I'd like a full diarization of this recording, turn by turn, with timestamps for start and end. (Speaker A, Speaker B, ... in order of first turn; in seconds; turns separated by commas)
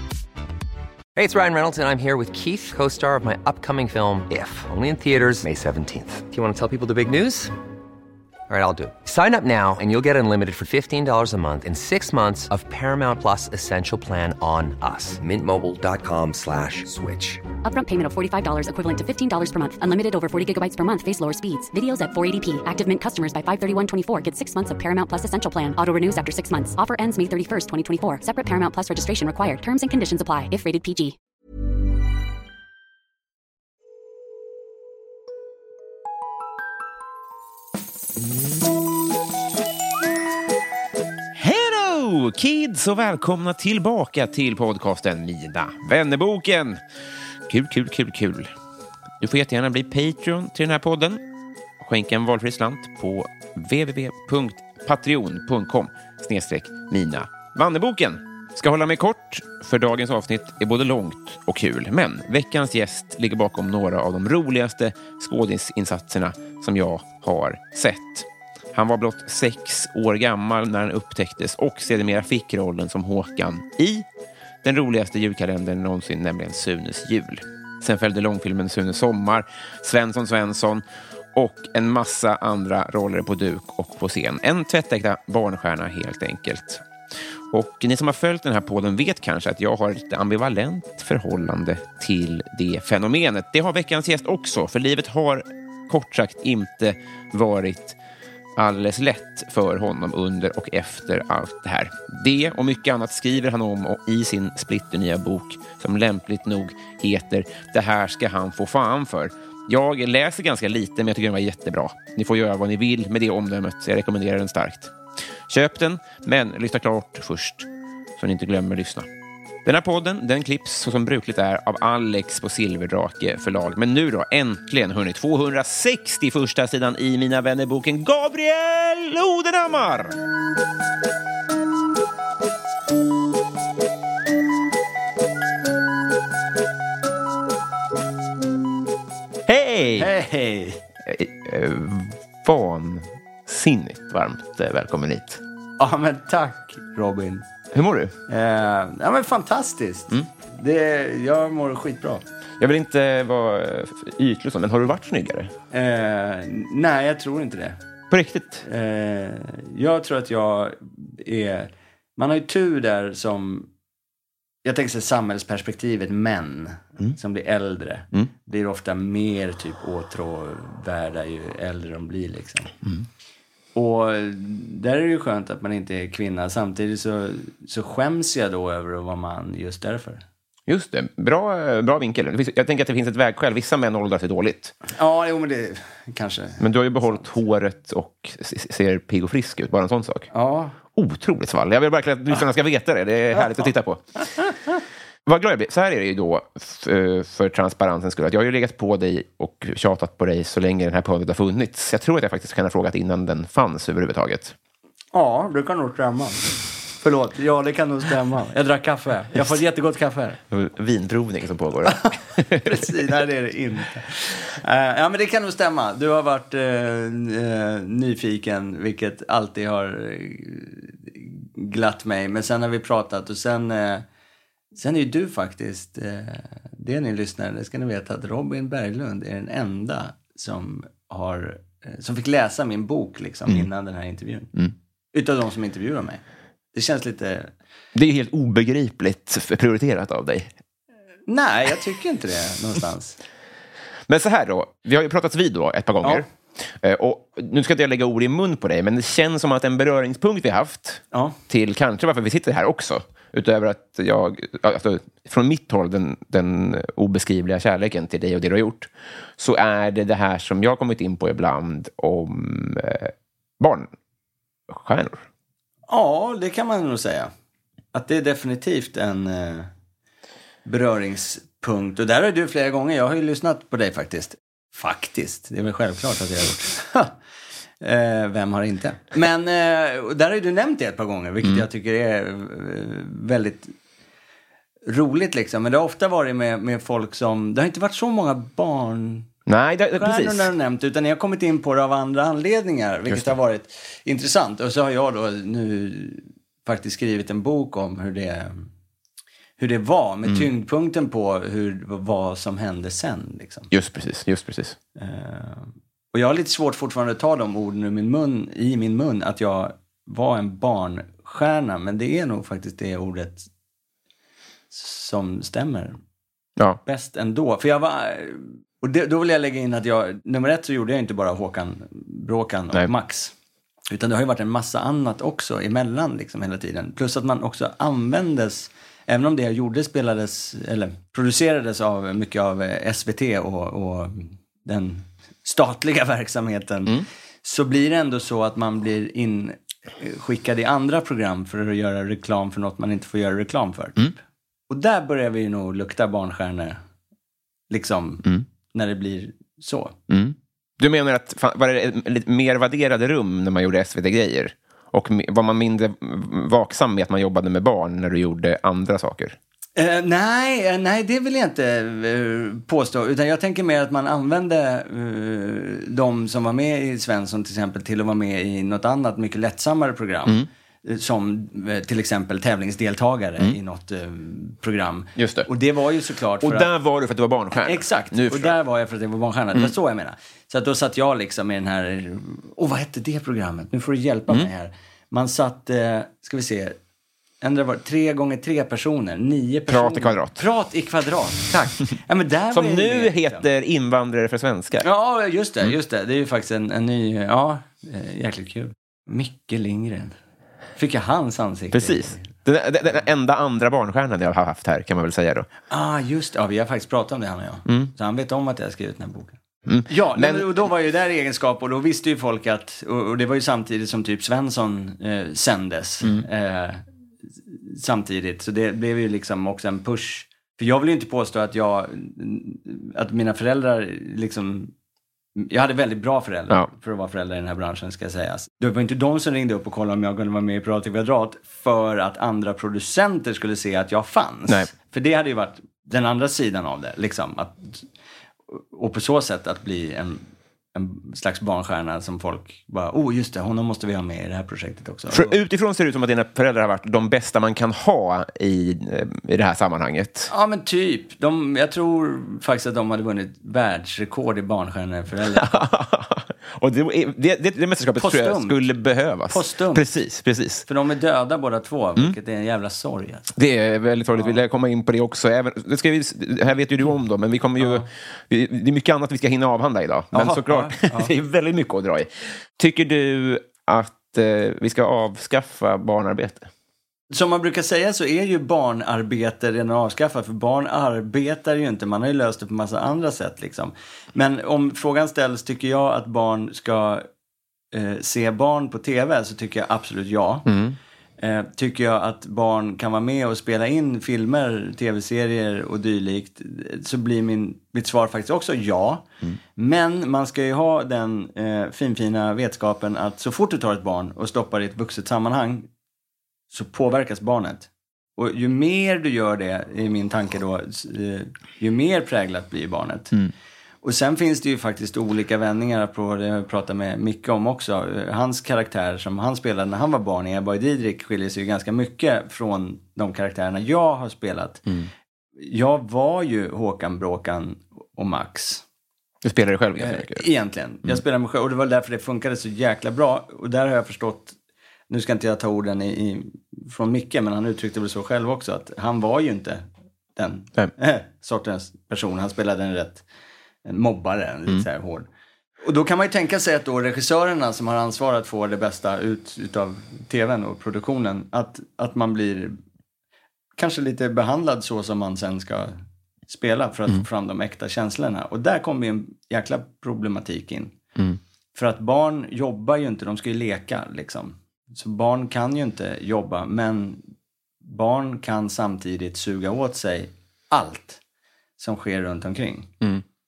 Speaker A: 1.1-7.5, Speaker A: 8.5-17.4, Speaker B: 17.6-31.2, Speaker C: 41.4-46.8, Speaker C: 47.5-48.5, Speaker C: 49.2-51.2, Speaker C: 51.8-74.1, Speaker C: 74.6-86.8, Speaker C: 87.5-98.0, Speaker C: 98.6-114.9, Speaker C: 115.5-119.1, Speaker C: 119.7-130.2, Speaker C: 139.5-140.1, Speaker D: 140.0-140.8, Speaker C: 141.1-145.4, Speaker D: 145.8-147.4, Speaker C: 147.7-148.1, Speaker D: 148.3-152.2, Speaker C: 152.6-155.5, Speaker D: 155.7-157.8, Speaker C: 158.1-158.7, Speaker D: 158.6-163.7, Speaker D: 164.7-172.7, Speaker D: 173.8-180.2, Speaker C: 180.7-184.8, Speaker D: 184.9-187.3, Speaker C: 186.6-190.3, Speaker D: 190.3-190.8, Speaker C: 190.9-194.1, Speaker D: 193.3-193.7, Speaker C: 195.3-204.6, Speaker D: 205.1-206.5, Speaker D: 207.0-210.4, Speaker C: 210.5-212.9, Speaker D: 211.9-224.1, Speaker D: 224.7-234.5, Speaker D: 235.1-236.2, Speaker D: 236.7-237.5, Speaker C: 237.9-240.5, Speaker D: 241.3-243.2, Speaker C: 244.1-263.9, Speaker D: 251.1-251.4, Speaker C: 264.7-265.2, Speaker D: 265.9-267.3, Speaker D: 267.9-269.7, Speaker D: 270.6-277.2, Speaker D: 277.8-283.7, Speaker D: 284.9-289.3, Speaker C: 289.5-290.5, Speaker D: 290.0-298.7, Speaker C: 293.1-293.3, Speaker D: 299.6-303.7, Speaker C: 303.7-304.8, Speaker D: 305.0-313.5, Speaker D: 314.7-316.0, Speaker D: 316.9-323.3, Speaker D: 323.9-344.2, Speaker D: 344.7-346.8, Speaker D: 347.7-350.0, Speaker C: 350.1-359.4, Speaker D: 359.8-376.7, Speaker C: 375.2-375.5, Speaker C: 376.4-378.6, Speaker D: 377.6-386.8, Speaker D: 387.4-393.4, Speaker C: 389.7-390.4, Speaker C: 392.5-394.9, Speaker D: 394.8-400.1, Speaker D: 400.8-402.3, Speaker C: 401.7-405.5, Speaker D: 405.7-416.9, Speaker C: 407.7-407.9, Speaker C: 409.7-410.6, Speaker D: 417.5-424.7, Speaker D: 425.4-437.9, Speaker D: 438.5-445.4, Speaker C: 445.1-450.3, Speaker D: 450.3-455.5, Speaker C: 455.4-460.6, Speaker D: 457.8-458.6, Speaker D: 459.3-459.9, Speaker D: 460.6-463.3, Speaker C: 463.4-476.5, Speaker D: 467.6-467.9, Speaker D: 470.1-471.1, Speaker D: 477.1-487.1, Speaker D: 487.7-490.5, Speaker C: 490.5-490.8, Speaker D: 491.2-505.7, Speaker D: 506.5-513.1, Speaker D: 513.8-524.6, Speaker D: 525.4-528.6, Speaker C: 529.2-530.3, Speaker D: 529.8-534.4, Speaker D: 534.9-543.0, Speaker D: 543.6-545.1, Speaker D: 545.6-552.6, Speaker D: 553.6-555.8, Speaker D: 556.3-560.8, Speaker D: 561.5-567.0, Speaker D: 567.6-571.0, Speaker D: 571.6-572.8